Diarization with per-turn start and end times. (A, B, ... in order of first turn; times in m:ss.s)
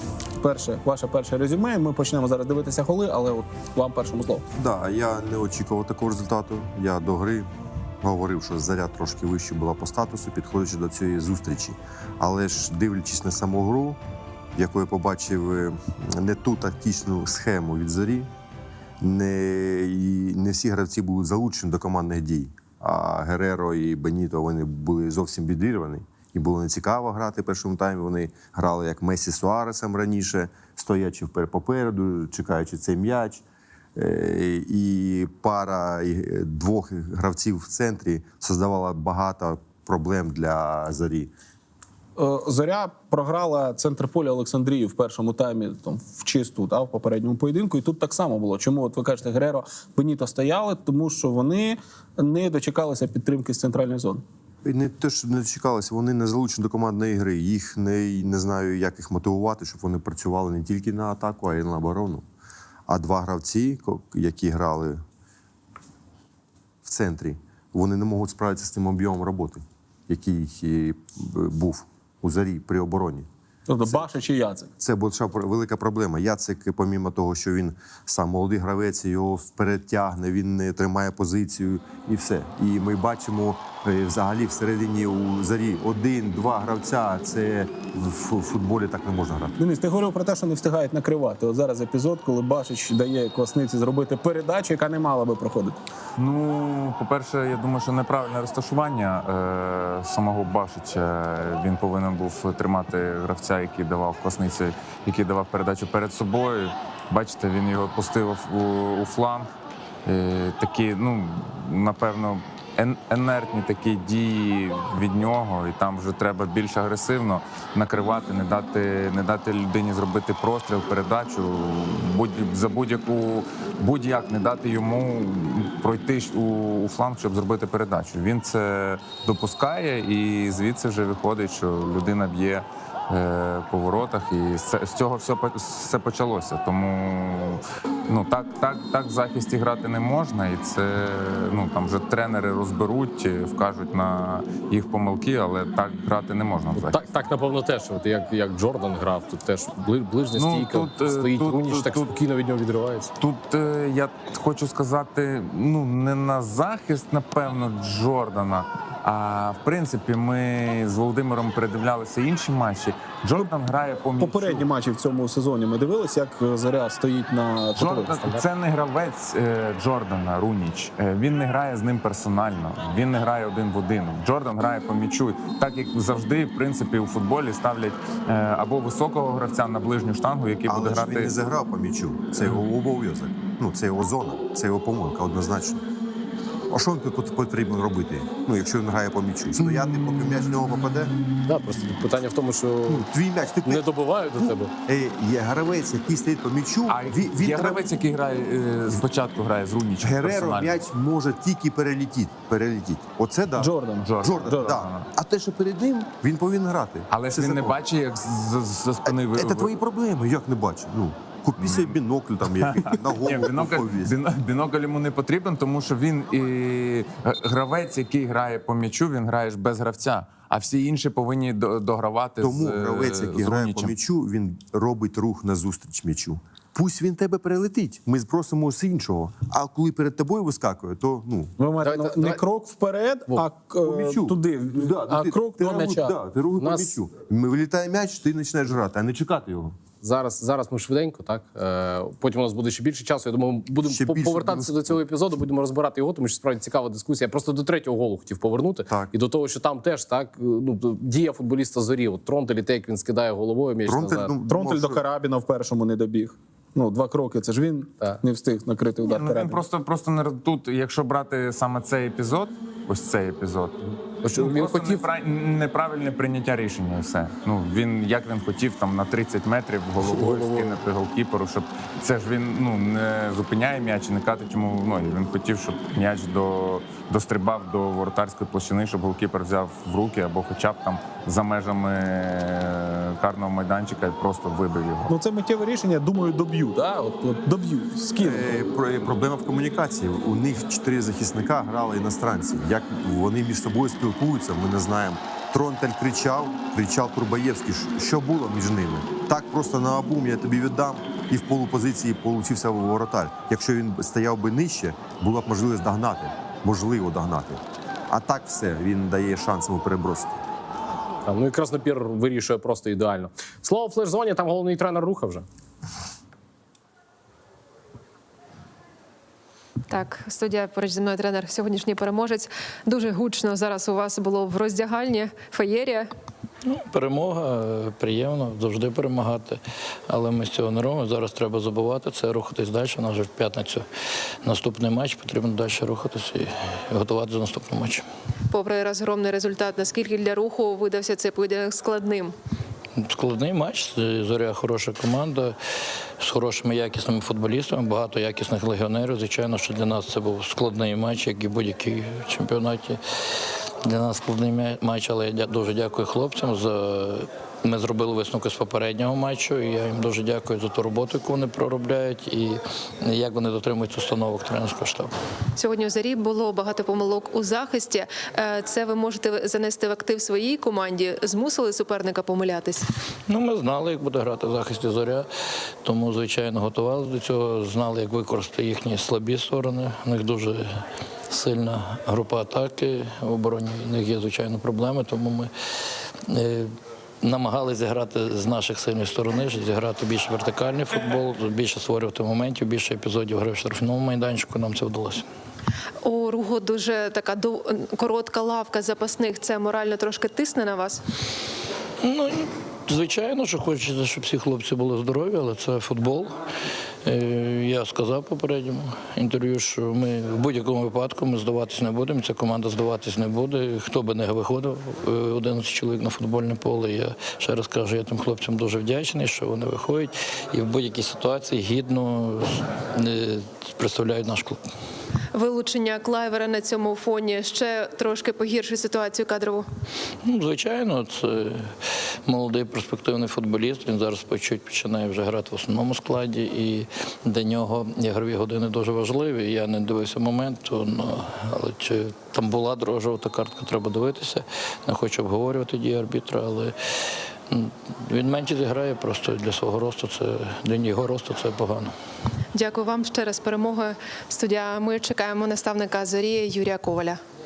0:00.4-0:04.5 A
0:04.6-0:07.5 B
0:08.0-0:14.0 B
0:14.6-0:18.3 B
0:19.0-0:33.4 B
0:34.0-0:41.3 B
0:42.2-0:54.2 A
0:54.6-1:02.2 B
1:02.9-1:05.0 B
1:06.8-1:13.3 B
1:13.7-1:14.7 A
1:14.8-1:29.6 B
1:29.6-1:35.8 A
1:36.2-1:49.5 C
1:50.0-2:27.1 C
2:26.8-2:33.1 D
2:30.3-2:32.1 C
2:33.2-2:44.7 C
2:44.2-2:48.4 A
2:47.8-3:01.4 C
3:00.7-3:05.8 B
3:06.7-3:11.1 B
3:11.5-3:13.1 D
3:12.9-3:17.9 B
3:13.6-3:14.7 D
3:16.9-3:20.8 C
3:20.0-3:27.8 B
3:23.6-3:24.9 A
3:24.0-3:25.1 C
3:27.1-3:29.8 C
3:29.1-3:34.1 B
3:31.6-3:44.0 C
3:42.4-3:51.5 B
3:51.6-3:56.2 A
3:51.8-3:52.4 D
3:53.8-3:59.8 B
3:56.6-3:57.0 D
4:00.0-4:14.3 D
4:03.8-4:05.0 B
4:08.9-4:09.1 B
4:13.8-4:15.0 B
4:14.4-4:19.6 A
4:19.0-4:45.1 C
4:24.2-4:25.0 D
4:30.0-4:30.8 D
4:45.1-4:48.7 A
4:48.2-5:10.4 B
5:11.2-5:15.4 D
5:19.9-5:26.1 E
5:26.6-5:33.8 F
5:34.4-5:38.0 F
5:38.5-5:42.3 E
5:43.0-5:45.6 F
5:46.2-5:53.0 F
5:53.8-6:05.1 F
6:05.6-6:12.9 E
6:13.3-6:15.3 F
6:15.8-6:20.8 F
6:21.3-6:25.5 F
6:26.3-6:35.3 F
6:36.0-6:41.0 E
6:42.0-6:46.3 F
6:47.0-7:04.6 F
7:05.3-7:09.6 E
7:10.2-7:26.8 F
7:27.5-7:31.9 F
7:32.6-7:37.2 E